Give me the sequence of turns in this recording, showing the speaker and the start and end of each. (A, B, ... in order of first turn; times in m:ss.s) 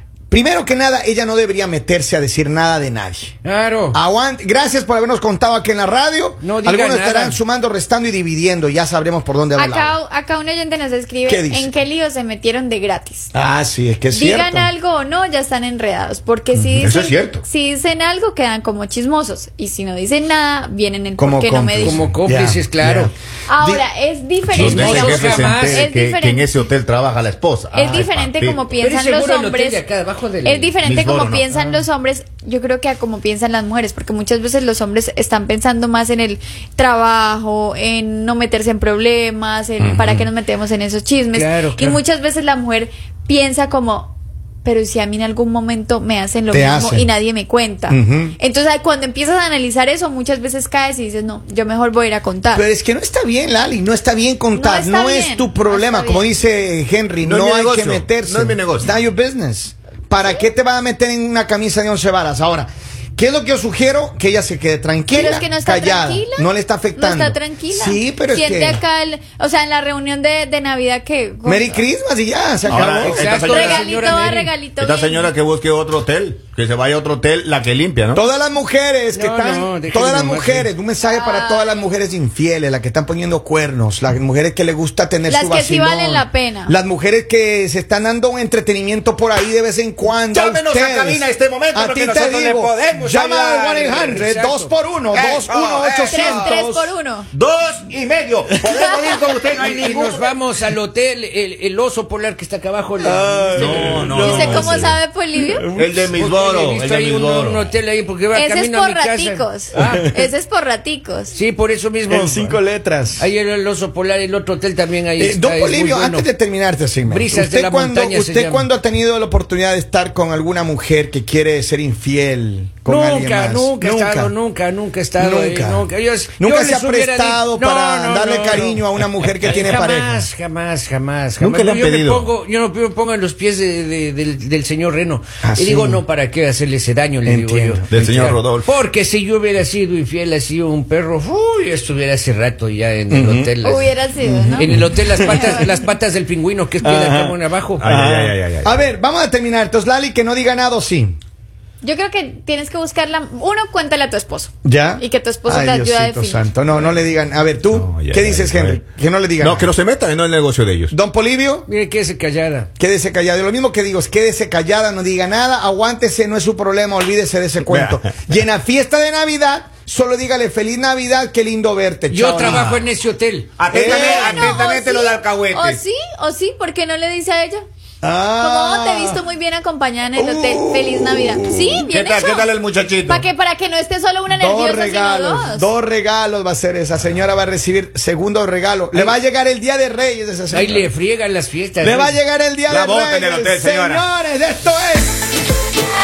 0:00.3-0:03.4 A
0:03.4-0:04.0 B
0:03.9-0:10.0 A
0:06.4-0:07.4 B
0:09.6-0:13.3 C
0:11.3-0:11.7 A
0:13.3-0:14.7 A
0:14.1-0:22.0 C
0:16.5-0:17.0 A
0:16.8-0:17.4 D
0:21.2-0:23.8 A
0:21.8-0:23.1 B
0:23.5-0:26.5 C
0:24.5-0:28.7 D
0:24.5-0:25.9 B
0:27.7-0:29.8 C
0:28.8-0:30.8 B
0:30.4-0:52.6 C
0:30.8-0:31.5 D
0:31.5-0:31.8 B
0:39.8-0:40.3 A
0:41.3-0:42.0 B
0:46.5-0:47.1 A
0:47.9-0:48.4 A
0:52.5-1:08.8 A
0:54.5-0:56.3 C
0:57.2-0:58.9 D
1:05.1-1:11.8 C
1:11.4-1:13.3 A
1:12.7-1:18.2 D
1:12.8-1:14.5 B
1:13.5-1:15.3 C
1:18.1-1:36.7 A
1:19.1-1:20.7 B
1:21.0-1:21.8 C
1:25.3-1:26.8 C
1:30.1-1:34.0 D
1:33.6-1:34.8 B
1:35.1-1:40.2 D
1:36.1-1:37.3 C
1:38.8-1:39.3 C
1:39.5-1:43.9 B
1:43.0-1:44.9 A
1:43.6-1:45.0 D
1:44.2-1:45.7 C
1:45.5-1:46.0 A
1:45.7-1:47.7 D
1:46.0-1:50.1 B
1:48.3-1:51.4 C
1:49.8-1:50.3 A
1:51.3-1:52.6 B
1:52.1-1:53.3 A
1:53.1-1:56.3 B
1:55.2-2:04.4 A
1:57.0-1:58.7 B
2:02.8-2:27.9 B
2:05.2-2:10.3 A
2:11.4-2:12.3 D
2:15.4-2:16.0 A
2:17.3-2:17.9 A
2:17.9-2:18.7 D
2:23.1-2:23.6 A
2:23.6-2:25.7 C
2:24.3-2:25.6 A
2:26.8-2:31.2 A
2:27.8-2:28.8 D
2:31.8-2:36.4 C
2:34.6-2:39.7 A
2:37.7-2:38.8 D
2:39.4-2:40.9 D
2:40.9-2:41.7 A
2:41.7-2:42.7 B
2:42.8-2:52.9 A
2:47.6-2:48.0 D
2:52.1-2:53.7 B
2:53.6-2:55.8 D
2:53.7-2:54.6 A
2:53.7-2:57.6 C
2:58.0-2:59.2 A
2:58.4-3:02.5 C
3:00.2-3:01.8 A
3:01.9-3:03.3 D
3:03.1-3:05.7 C
3:04.3-3:10.9 A
3:10.5-3:12.2 B
3:11.8-3:15.3 A
3:12.7-3:14.0 D